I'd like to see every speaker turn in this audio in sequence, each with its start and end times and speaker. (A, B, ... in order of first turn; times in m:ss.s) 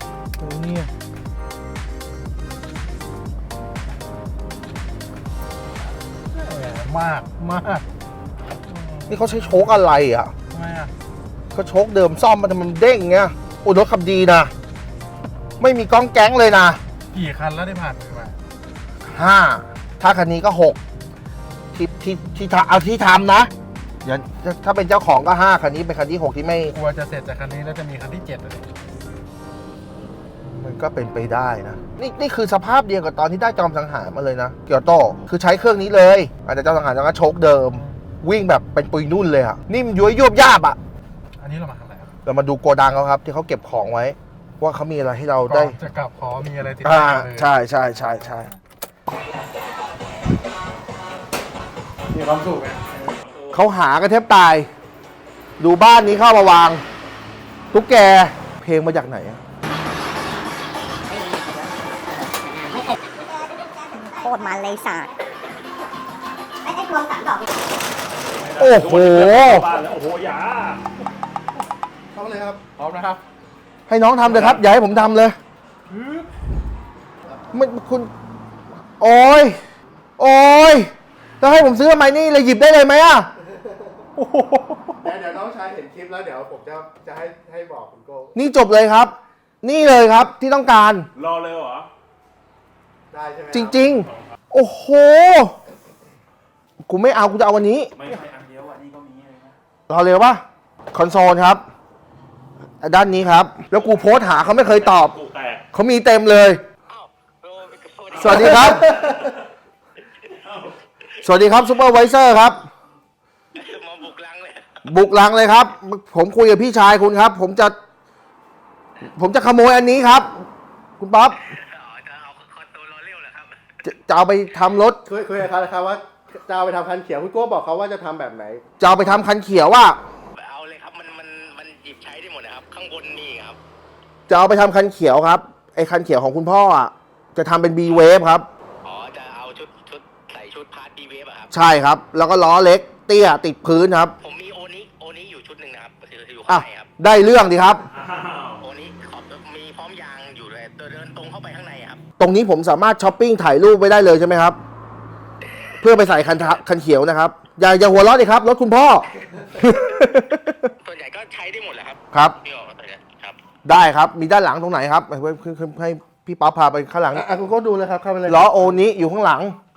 0:00.4-0:00.9 A
0:06.3-0:07.8 B
0:08.6-0:09.4 B
0:09.1-0:10.3 A
0:10.5-0:10.9 B
0:11.5-0:14.5 A
0:15.6-0:16.8 A
0:17.1-0:18.4 B
0:19.0-0:20.8 A
0:21.7-0:23.5 A
0:24.0-0:26.7 A
0:26.7-0:28.7 B
0:30.4-0:40.8 A
0:37.7-0:38.0 B
0:41.4-0:42.1 B
0:42.2-0:45.8 A
0:45.5-0:47.5 B
0:46.8-0:48.5 A
0:48.0-0:48.5 B
0:52.1-0:53.0 B
0:53.2-0:53.6 C
0:53.5-0:54.7 A
0:55.6-0:56.8 A
0:57.7-0:59.4 A
1:01.1-1:05.1 D
1:06.6-1:07.5 D
1:08.2-1:10.8 C
1:08.6-1:09.6 A
1:12.1-1:12.6 E
1:12.8-1:13.2 B
1:13.9-1:15.4 A
1:14.3-1:14.6 C
1:15.9-1:16.3 B
1:17.5-1:18.1 A
1:19.0-1:19.6 A
1:20.2-1:23.3 A
1:24.2-1:25.0 A
1:25.0-1:28.3 E
1:28.3-1:31.1 A
1:31.1-1:31.9 C
1:33.1-1:33.8 E
1:33.5-1:35.6 A
1:36.9-1:37.9 A
1:37.9-1:39.5 C
1:39.9-1:41.6 A
1:42.8-1:45.2 A
1:44.6-1:45.6 C
1:45.7-1:46.6 A
1:46.9-1:49.1 F
1:48.2-1:49.2 A
1:48.5-1:49.4 C
1:50.4-1:50.7 C
1:51.2-1:52.7 A
1:53.5-1:54.8 F
1:54.8-1:57.8 A
1:59.0-2:00.4 A
2:01.0-2:01.4 A
2:01.3-2:03.8 F
2:03.8-2:05.0 A
2:05.0-2:08.6 E
2:08.8-2:10.0 A
2:10.4-2:13.6 F
2:14.3-2:18.5 A
2:18.8-2:21.5 F
2:21.5-2:24.1 A
2:24.2-2:26.9 F
2:26.5-2:27.9 A
2:27.9-2:28.6 C
2:28.6-2:32.0 F
2:32.2-2:34.6 A
2:35.8-2:40.7 A
2:40.8-2:43.4 F
2:43.6-2:47.2 A
2:47.1-2:48.8 E
2:48.2-2:49.6 A